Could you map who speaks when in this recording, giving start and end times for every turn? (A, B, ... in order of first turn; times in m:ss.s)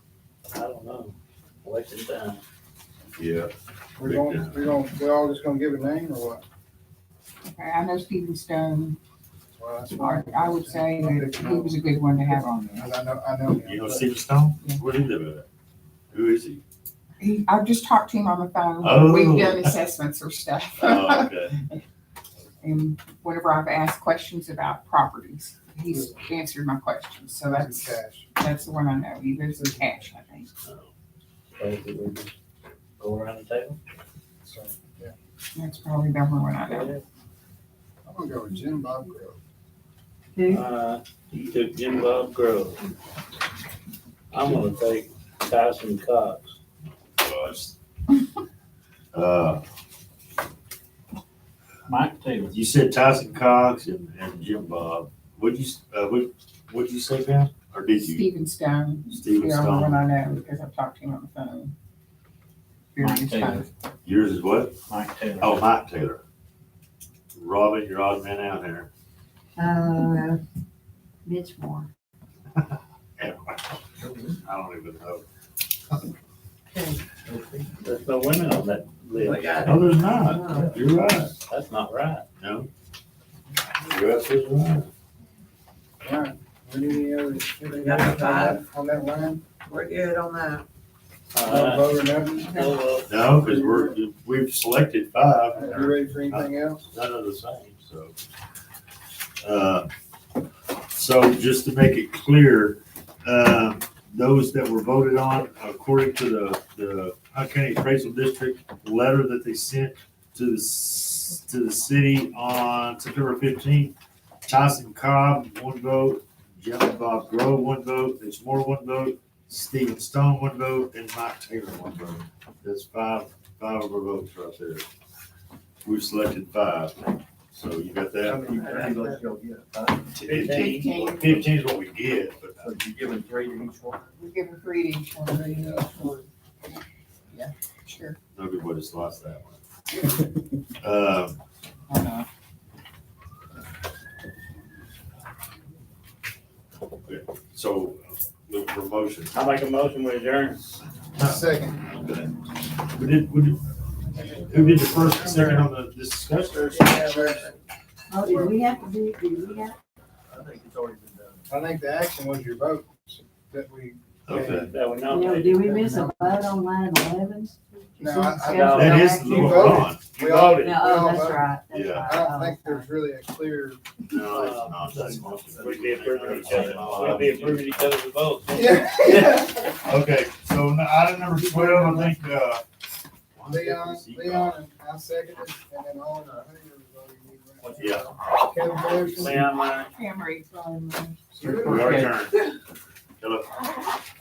0:00.5-0:02.4 A
0:03.2-0:04.7 B
0:04.0-0:06.4 C
0:07.4-0:09.0 D
0:09.6-0:14.1 C
0:10.0-0:12.9 D
0:13.6-0:15.5 B
0:16.1-0:16.6 B
0:17.2-0:21.8 D
0:18.8-0:19.8 B
0:20.8-0:21.6 B
0:22.6-0:30.5 D
0:27.4-0:28.3 C
0:29.6-0:29.9 C
0:30.6-0:30.9 B
0:31.6-0:32.3 A
0:33.0-0:33.8 A
0:34.4-0:35.2 C
0:35.6-0:36.9 D
0:36.7-0:37.0 A
0:38.0-0:39.4 C
0:40.4-0:40.6 E
0:40.5-0:42.8 A
0:44.3-0:46.5 A
0:46.8-0:47.8 B
0:49.1-0:49.6 B
0:51.9-0:52.6 A
0:52.5-0:58.3 B
0:58.0-1:01.7 D
0:59.1-1:00.3 B
1:02.9-1:03.7 D
1:03.0-1:03.7 A
1:04.0-1:04.8 B
1:04.9-1:05.6 A
1:05.4-1:06.2 B
1:07.3-1:08.9 B
1:09.6-1:10.4 E
1:11.2-1:11.9 E
1:12.6-1:13.8 B
1:14.1-1:14.4 F
1:14.4-1:15.2 B
1:17.2-1:17.7 F
1:17.8-1:19.8 A
1:19.1-1:20.8 G
1:19.6-1:21.3 B
1:21.5-1:22.2 A
1:22.4-1:22.7 B
1:23.9-1:24.9 B
1:26.0-1:29.4 C
1:27.8-1:28.6 G
1:29.7-1:30.6 G
1:31.3-1:33.1 A
1:31.4-1:32.6 C
1:33.1-1:38.2 B
1:33.3-1:34.0 C
1:35.5-1:36.8 C
1:39.4-1:39.9 B
1:40.9-1:53.9 B
1:54.4-2:04.8 B
2:05.8-2:07.0 B
2:07.5-2:08.5 B
2:08.2-2:10.1 F
2:08.6-2:09.1 G
2:10.1-2:12.7 B
2:10.2-2:10.9 A
2:10.3-2:11.5 D
2:12.6-2:14.1 F
2:14.2-2:16.2 D
2:17.3-2:18.2 D
2:18.4-2:19.6 B
2:20.8-2:21.4 B
2:21.9-2:22.2 D
2:27.0-2:29.3 B
2:29.3-2:30.8 A
2:31.2-2:32.3 B
2:31.2-2:31.8 C
2:32.9-2:33.6 B
2:34.2-2:35.7 C
2:34.4-2:36.9 B
2:36.5-2:37.6 C
2:36.7-2:37.5 G
2:38.1-2:39.8 E
2:38.3-2:38.6 C
2:40.3-2:41.5 F
2:41.5-2:44.7 C
2:44.3-2:44.7 B
2:44.5-2:45.7 A
2:45.1-2:49.9 E
2:45.6-2:46.3 C
2:48.0-2:51.5 C
2:48.5-2:49.0 A
2:48.7-2:50.2 B
2:50.1-2:50.7 A
2:50.5-2:53.0 E
2:51.7-2:52.2 B
2:52.0-2:54.7 C
2:54.1-2:57.9 B
2:54.3-2:59.3 A
2:55.0-2:57.4 F
2:58.5-2:59.7 C
2:59.8-3:02.6 B
3:03.4-3:04.6 B
3:03.5-3:09.5 C
3:07.8-3:08.2 B
3:09.0-3:09.9 A
3:09.8-3:11.2 D
3:11.3-3:12.1 C
3:11.4-3:12.4 B
3:11.7-3:12.1 A
3:13.2-3:13.6 B